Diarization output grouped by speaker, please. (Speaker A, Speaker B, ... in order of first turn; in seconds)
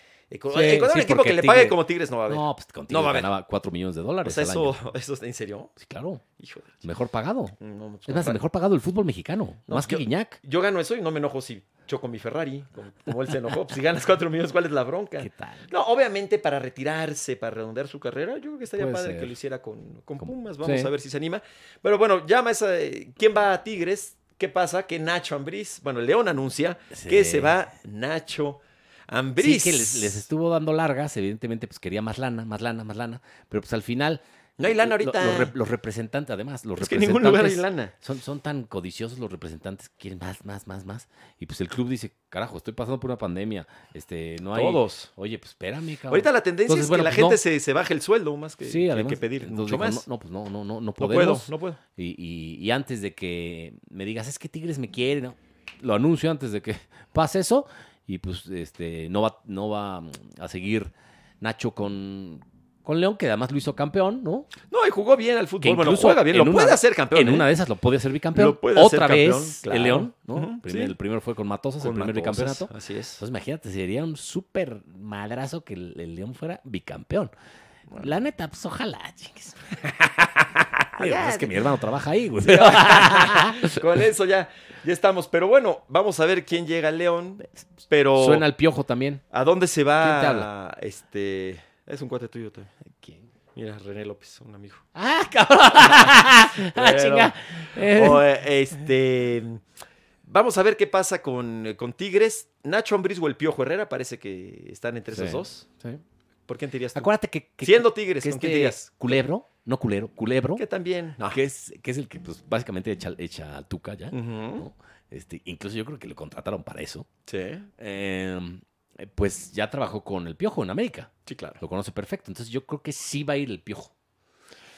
Speaker A: 0.3-3.3, 4.2-5.7, 6.4-6.8, 7.6-8.4, 9.7-30.3, 34.6-35.5, 36.8-37.9, 44.5-45.1, 46.1-50.0, 51.0-51.8, 64.7-67.5, 68.3-70.9, 71.8-73.2, 81.0-81.7, 82.4-88.5, 89.3-92.7, 93.6-94.8, 95.8-99.6, 100.3-105.7, 106.5-107.1, 107.6-109.2, 110.6-111.4, 114.1-114.7, 117.3-117.7, 121.3-121.6
Speaker B: 0.5-4.8, 5.8-6.2, 6.8-10.4, 15.2-15.7, 18.8-19.3, 20.2-20.9, 26.9-27.6, 29.4-47.4, 48.6-64.5, 65.6-77.3, 78.0-83.8, 88.2-89.2, 90.0-90.5, 93.0-93.2, 95.0-98.3, 105.1-106.0, 107.0-110.6, 111.3-117.1, 117.8-123.9